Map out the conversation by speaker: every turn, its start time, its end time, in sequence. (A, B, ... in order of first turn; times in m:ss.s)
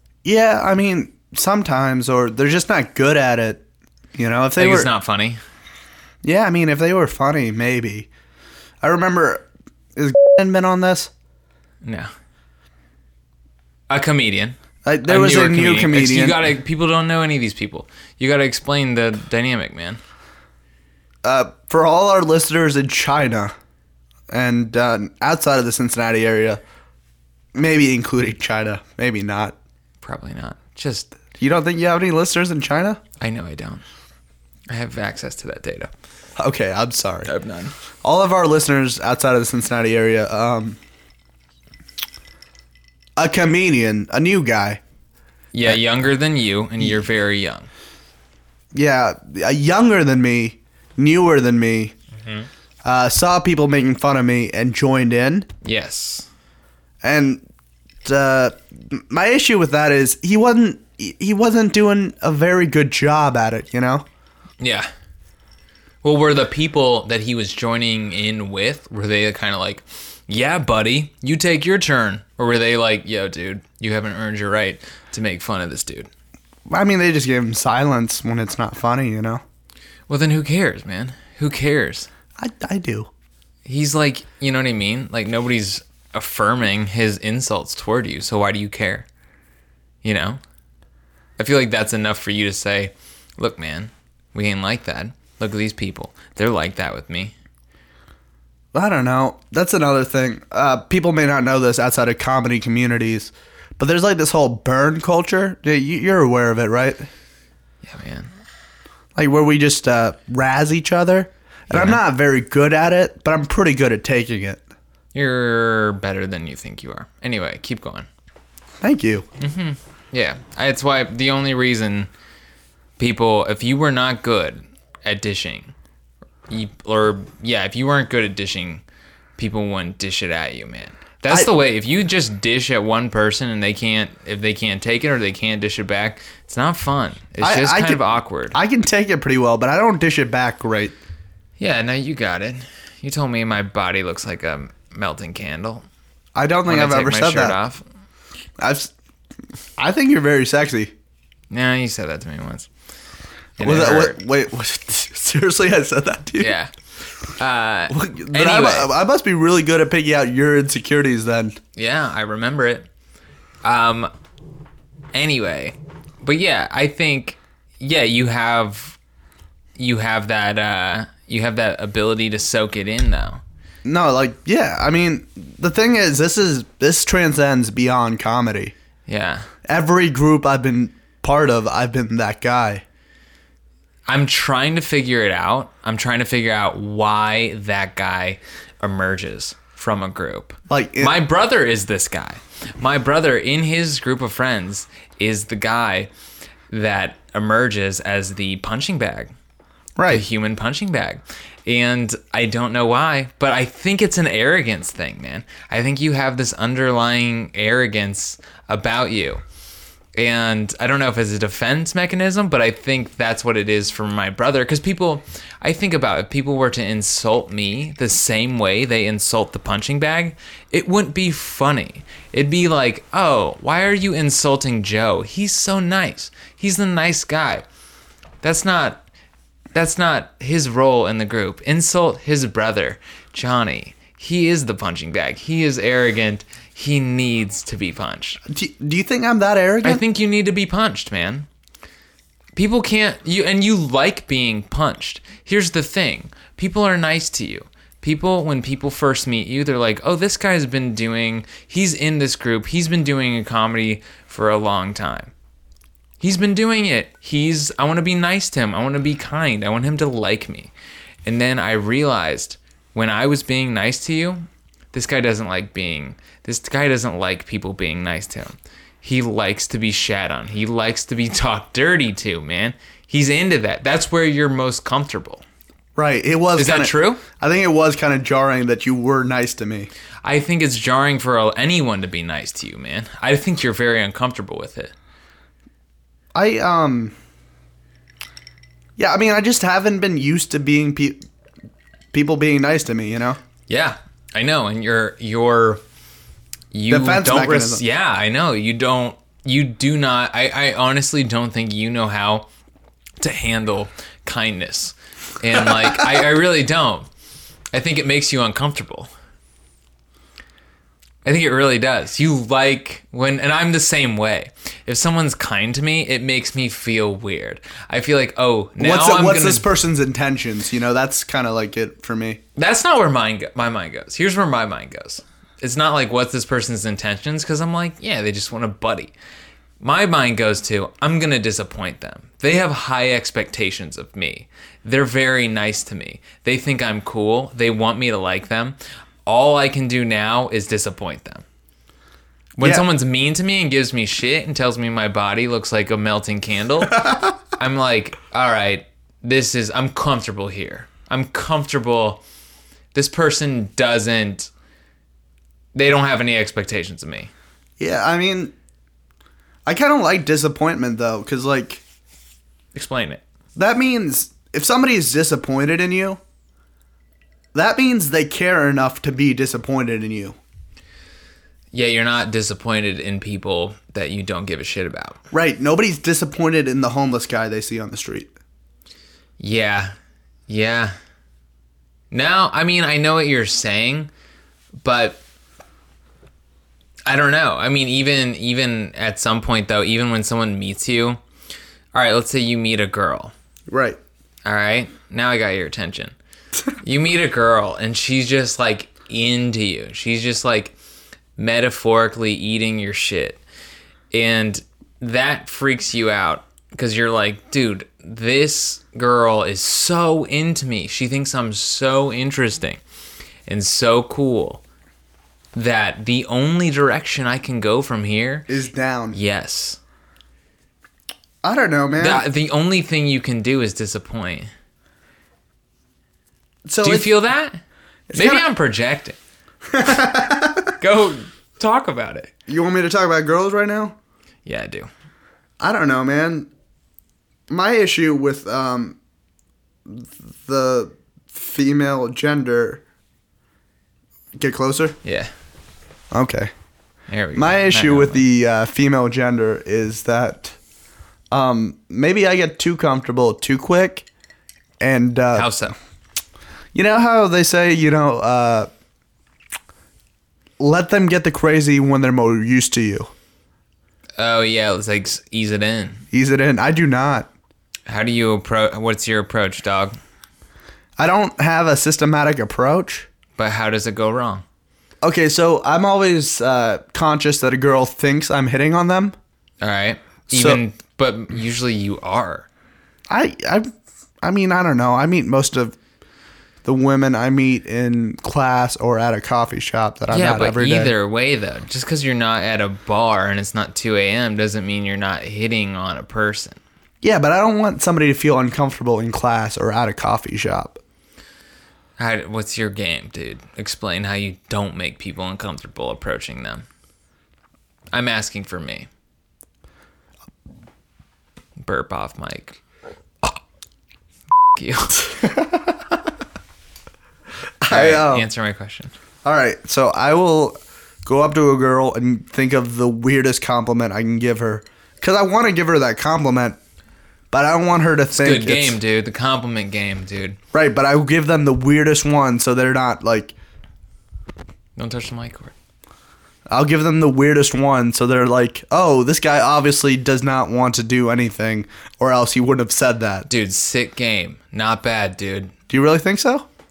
0:00.2-0:03.6 A
0:04.1-0:04.9 A
0:04.6-0:05.4 B
0:06.2-0:08.1 A
0:08.8-0:11.1 A
0:11.8-0:12.1 B
0:13.9-0:20.0 B
0:14.8-0:16.4 A
0:21.2-0:23.5 A
0:24.3-0:26.6 A
0:27.5-0:29.6 A
0:30.0-0:31.1 B
0:31.4-0:33.0 A
0:33.2-0:33.8 B
0:34.7-0:35.9 B
0:36.4-0:37.3 A
0:37.3-0:37.7 B
0:38.0-0:40.8 A
0:43.2-0:44.8 A
0:45.5-0:47.7 B
0:48.7-0:51.9 A
0:52.2-0:52.5 B
0:52.8-0:55.5 A
0:55.6-0:56.3 B
0:57.0-0:57.4 A
0:58.0-1:04.0 A
1:04.6-1:04.9 B
1:06.0-1:16.1 B
1:16.7-1:19.4 A
1:20.1-1:22.1 B
1:22.4-1:23.1 A
1:23.6-1:29.0 B
1:30.0-1:30.4 B
1:31.4-1:37.3 B
1:38.7-1:47.1 A
1:47.8-1:48.3 B
1:49.1-1:54.6 A
1:51.7-1:52.0 B
1:55.1-1:58.1 B
1:58.8-1:59.2 A
1:59.4-2:02.1 B
2:03.0-2:05.7 B
2:06.5-2:08.8 B
2:09.4-2:18.6 B
2:17.4-2:20.9 A
2:21.6-2:25.8 B
2:26.3-2:27.6 A
2:26.7-2:27.8 B
2:28.6-2:28.9 A
2:29.8-2:30.9 A
2:31.5-2:32.7 B
2:33.6-2:34.2 B
2:33.6-2:36.5 A
2:36.4-2:36.7 B
2:37.4-2:38.9 B
2:37.9-2:41.6 A
2:41.8-2:42.9 B
2:43.6-2:44.1 B
2:45.1-2:49.0 B
2:49.8-2:53.4 B
2:53.8-2:58.7 A
2:59.1-2:59.5 B
2:59.6-3:02.8 A
3:04.1-3:16.1 B
3:10.7-3:11.1 A
3:16.7-3:19.3 B
3:20.0-3:20.2 A
3:20.1-3:29.4 B
3:30.1-3:47.6 B
3:48.4-3:49.0 B
3:49.7-3:58.4 B
3:58.5-4:00.0 A
3:59.8-4:01.5 B
4:02.5-4:15.3 B
4:16.2-4:20.7 B
4:21.2-4:35.4 B
4:36.0-4:39.9 A
4:36.6-4:37.2 B
4:40.2-4:44.9 B
4:46.3-4:47.1 A
4:49.0-4:51.2 A
4:52.1-4:53.4 A
4:53.7-4:55.8 B
4:56.7-5:02.5 B
4:56.9-4:57.8 A
5:03.2-5:07.1 B
5:07.7-5:09.1 B
5:11.2-5:19.6 B
5:18.8-5:22.4 A
5:22.6-5:29.1 B
5:29.8-5:41.4 B
5:42.6-5:52.2 B
5:52.9-5:54.5 B
5:55.7-5:57.3 B
5:57.8-5:58.5 A
5:59.6-6:01.8 A
6:02.7-6:03.2 B
6:03.6-6:06.2 A
6:07.5-6:10.4 A
6:11.7-6:15.2 B
6:15.3-6:18.3 A
6:19.4-6:19.9 B
6:20.5-6:20.9 B
6:22.1-6:24.1 B
6:24.8-6:25.2 B
6:27.0-6:31.2 B
6:31.9-6:33.3 B
6:33.7-6:34.0 A
6:34.4-6:36.1 B
6:36.8-6:40.7 B
6:41.4-6:43.4 B
6:44.1-6:52.8 B
6:53.4-6:54.6 B
6:55.5-6:58.5 B
6:58.5-6:59.2 A
6:59.1-6:59.8 B
7:01.4-7:02.2 A
7:02.0-7:04.5 B
7:06.6-7:07.1 A
7:06.8-7:07.6 B
7:08.1-7:08.5 A
7:08.1-7:09.2 B
7:09.7-7:10.7 A
7:10.8-7:12.3 B
7:12.5-7:13.9 A
7:14.4-7:14.9 B
7:15.6-7:16.5 A
7:17.5-7:19.0 A
7:19.8-7:22.8 A
7:24.4-7:25.0 A
7:25.0-7:25.3 B
7:26.1-7:26.5 A
7:27.1-7:28.2 B
7:27.3-7:30.5 A
7:31.3-7:34.0 A
7:34.8-7:35.5 A
7:35.3-7:35.8 B
7:36.7-7:38.7 A
7:40.6-7:43.1 A
7:44.2-7:46.0 B
7:46.1-7:47.3 A
7:47.9-7:50.0 B
7:51.0-7:53.1 A
7:53.4-7:54.4 B
7:55.0-7:59.2 A
7:59.6-8:02.5 B
8:00.3-8:00.6 A
8:03.1-8:05.8 A
8:06.6-8:10.9 A
8:10.1-8:16.6 B
8:17.0-8:20.8 A
8:22.0-8:26.6 B
8:27.9-8:28.9 B
8:31.6-8:32.6 B
8:34.5-8:35.2 B
8:35.2-8:35.8 A
8:37.6-8:38.3 A
8:37.7-8:38.9 B
8:39.2-8:46.6 A
8:47.3-8:48.8 A
8:48.1-8:50.4 B
8:50.5-8:53.3 A
8:54.8-8:55.5 B
8:56.5-9:03.3 A
9:03.3-9:05.5 B
9:05.7-9:06.5 A